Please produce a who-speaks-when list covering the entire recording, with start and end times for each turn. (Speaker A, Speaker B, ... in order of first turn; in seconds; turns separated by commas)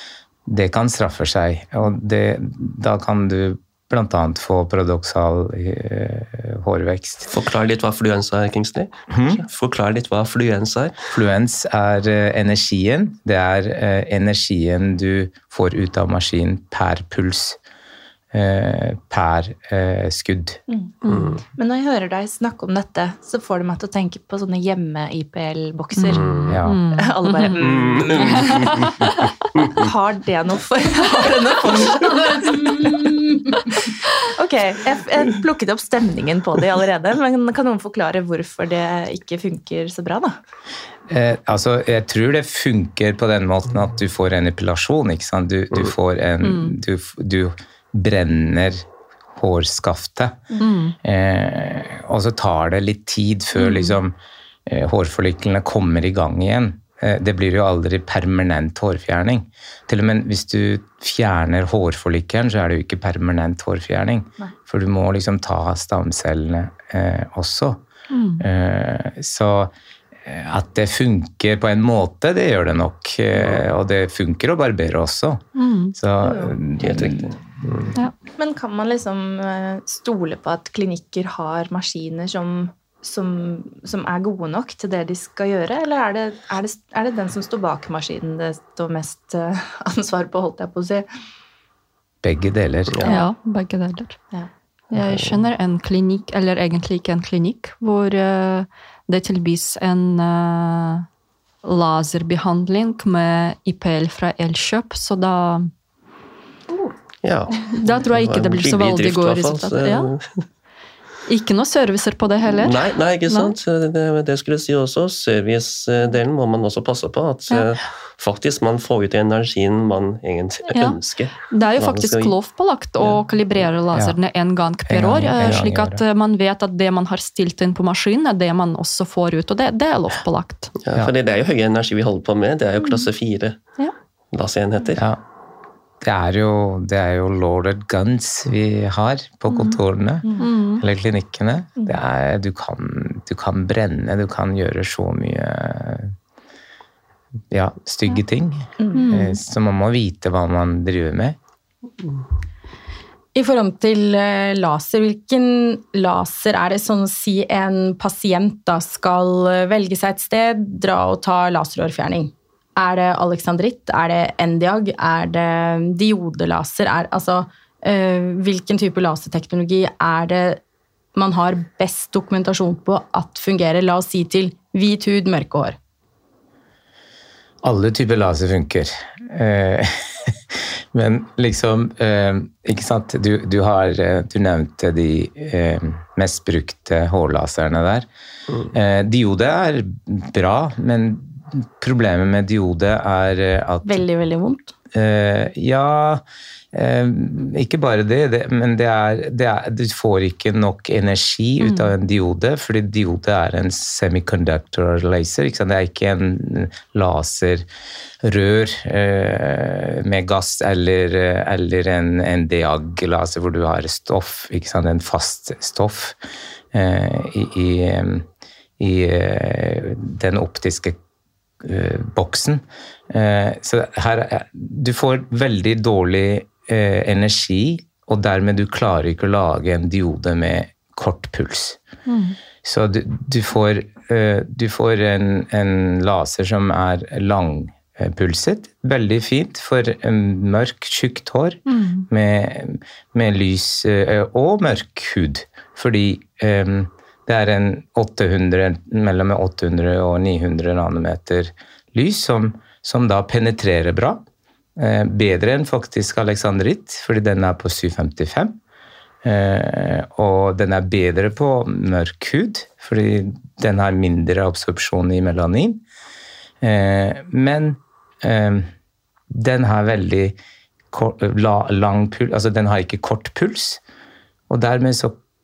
Speaker A: 0.5-7.3, Speaker B: 7.3-11.0, Speaker A: 9.1-9.4, Speaker A: 11.1-17.6, Speaker A: 18.3-20.6, Speaker C: 20.7-20.9, Speaker D: 21.0-21.4, Speaker B: 21.1-21.4, Speaker C: 21.5-28.7, Speaker D: 25.9-27.6, Speaker B: 26.1-26.6, Speaker A: 26.5-26.8, Speaker B: 27.6-28.7, Speaker A: 28.0-28.4, Speaker D: 28.2-29.2, Speaker C: 29.6-40.4, Speaker A: 41.1-50.5, Speaker D: 46.4-46.8, Speaker D: 50.6-51.0, Speaker A: 51.0-54.1, Speaker D: 53.5-54.0, Speaker A: 54.7-67.8, Speaker D: 68.1-68.4, Speaker A: 68.4-69.7, Speaker A: 70.2-75.4, Speaker D: 75.5-75.9, Speaker A: 75.9-77.3, Speaker C: 76.2-76.5, Speaker B: 76.8-77.9, Speaker C: 78.3-91.1, Speaker A: 92.2-93.0, Speaker D: 93.0-94.2, Speaker D: 94.9-101.1, Speaker B: 95.0-95.3, Speaker D: 101.6-105.7, Speaker B: 107.2-110.4, Speaker D: 107.7-110.1, Speaker D: 111.3-113.5, Speaker B: 112.5-122.3, Speaker D: 120.7-121.0, Speaker D: 121.5-130.7, Speaker A: 124.9-126.0, Speaker B: 130.8-133.7, Speaker D: 132.8-133.1, Speaker B: 134.3-135.0, Speaker A: 134.9-135.2, Speaker A: 136.0-146.1, Speaker D: 139.5-139.8, Speaker D: 140.4-140.8, Speaker A: 147.5-151.4, Speaker C: 148.8-149.0, Speaker D: 148.9-149.4, Speaker E: 153.3-170.6, Speaker E: 171.1-175.8, Speaker A: 177.6-188.1, Speaker A: 188.7-194.0, Speaker E: 193.8-194.7, Speaker A: 194.9-207.7, Speaker D: 201.6-201.9, Speaker A: 208.2-216.2, Speaker A: 216.7-218.2, Speaker A: 218.8-221.0, Speaker A: 221.6-231.8, Speaker D: 232.1-232.3, Speaker A: 232.6-254.2, Speaker D: 241.7-242.1, Speaker A: 254.8-258.6, Speaker A: 259.2-265.8, Speaker A: 266.6-268.7, Speaker A: 269.3-270.4, Speaker A: 270.9-273.8, Speaker A: 274.5-275.2